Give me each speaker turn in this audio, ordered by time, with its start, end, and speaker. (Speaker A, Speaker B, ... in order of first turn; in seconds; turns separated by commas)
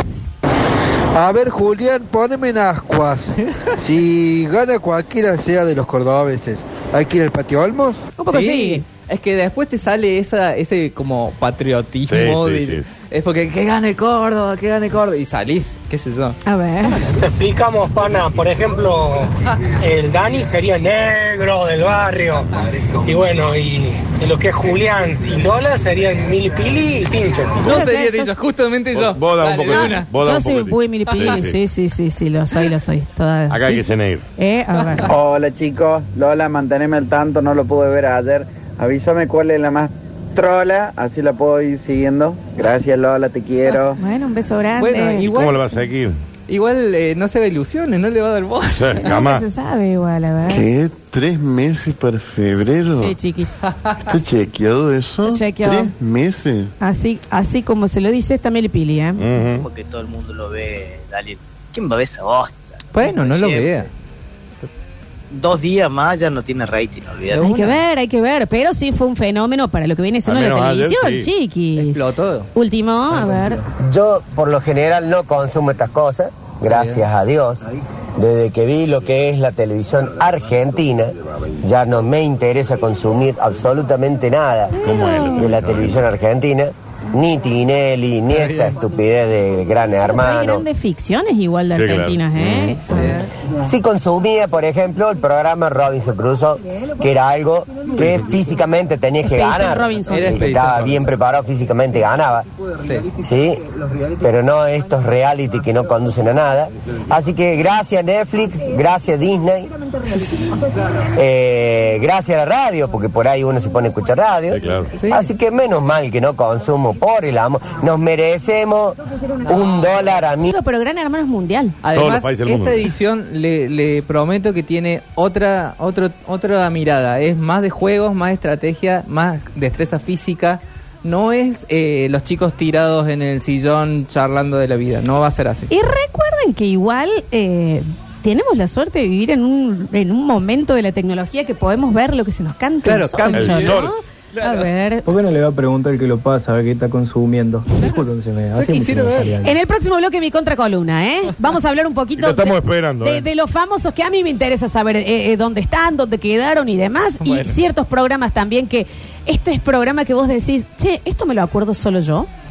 Speaker A: 1.1-8.1, Speaker B: 3.4-3.8, Speaker C: 8.2-8.8, Speaker B: 8.3-16.4, Speaker D: 12.1-12.9, Speaker C: 16.4-17.1, Speaker E: 17.0-27.6, Speaker B: 27.6-30.1, Speaker C: 27.6-28.3, Speaker D: 28.9-31.6, Speaker C: 29.7-35.1, Speaker D: 33.5-34.2, Speaker F: 35.1-43.9, Speaker C: 44.0-45.2, Speaker B: 44.8-45.6, Speaker D: 45.2-46.2, Speaker B: 46.5-49.0, Speaker D: 48.7-49.5, Speaker C: 49.0-50.7, Speaker G: 50.4-53.1, Speaker C: 53.0-53.5, Speaker B: 53.6-54.1, Speaker G: 54.0-56.7, Speaker C: 55.2-55.9, Speaker C: 56.8-59.3, Speaker D: 59.2-59.7, Speaker H: 59.6-63.7, Speaker B: 62.9-63.9, Speaker H: 65.3-67.4, Speaker B: 67.3-67.8, Speaker C: 67.4-72.0, Speaker D: 70.2-71.3, Speaker B: 71.8-72.5, Speaker C: 72.5-73.6, Speaker I: 73.8-77.7, Speaker B: 76.7-77.0, Speaker I: 78.2-84.8, Speaker C: 84.8-85.3, Speaker D: 84.8-86.0, Speaker I: 85.4-90.6, Speaker B: 88.3-88.8, Speaker C: 90.0-92.8, Speaker D: 91.7-93.2, Speaker B: 92.9-93.3, Speaker I: 93.6-102.5, Speaker C: 99.3-100.5, Speaker B: 100.1-101.0, Speaker I: 103.2-103.6, Speaker I: 104.2-110.2, Speaker I: 111.2-120.5, Speaker D: 114.5-114.9, Speaker B: 114.9-115.2, Speaker C: 120.4-121.8, Speaker B: 121.8-135.7, Speaker D: 121.9-122.9, Speaker C: 135.7-145.1, Speaker B: 142.8-144.7, Speaker D: 143.3-144.0, Speaker J: 145.1-149.6, Speaker B: 148.5-149.4, Speaker C: 149.4-162.3, Speaker D: 152.2-153.3, Speaker B: 157.2-157.6